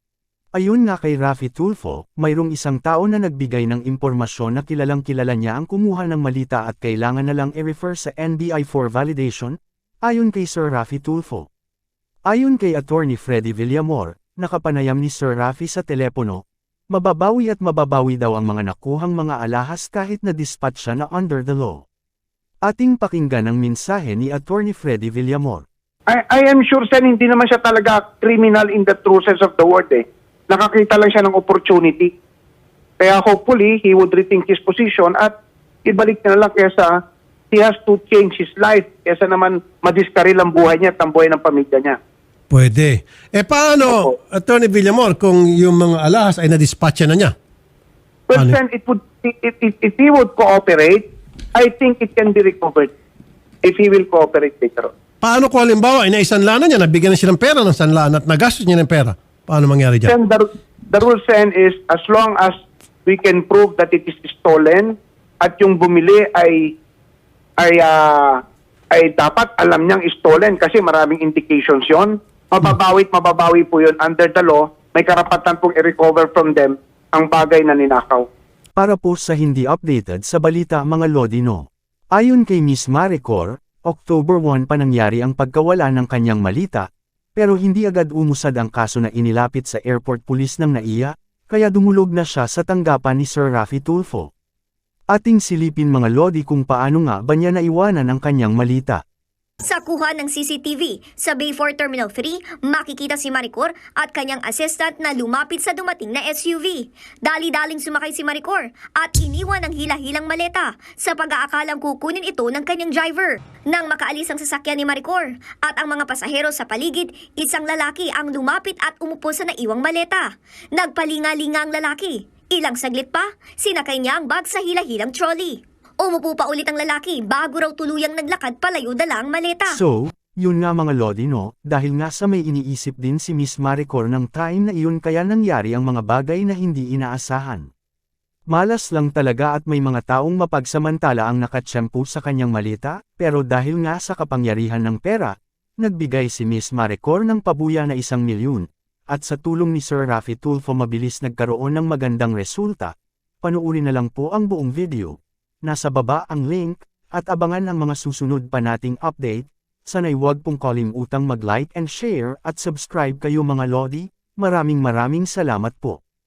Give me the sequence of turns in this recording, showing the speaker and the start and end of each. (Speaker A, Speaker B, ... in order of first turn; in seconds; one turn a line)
Speaker A: 0.6-11.5
Speaker A: 12.3-16.4
Speaker A: 16.9-21.8
Speaker A: 22.6-25.6
Speaker B: 26.1-32.1
Speaker B: 33.0-35.3
Speaker B: 35.8-37.0
Speaker B: 37.5-42.0
Speaker C: 42.5-47.3
Speaker B: 48.3-52.9
Speaker B: 53.6-54.9
Speaker C: 55.2-60.1
Speaker B: 60.1-62.5
Speaker B: 63.0-66.8
Speaker B: 67.6-68.4
Speaker B: 68.9-78.3
Speaker A: 78.8-86.8
Speaker A: 87.4-94.3
Speaker A: 95.1-99.0
Speaker D: 99.7-129.8
Speaker A: 129.7-137.7
Speaker A: 138.5-166.0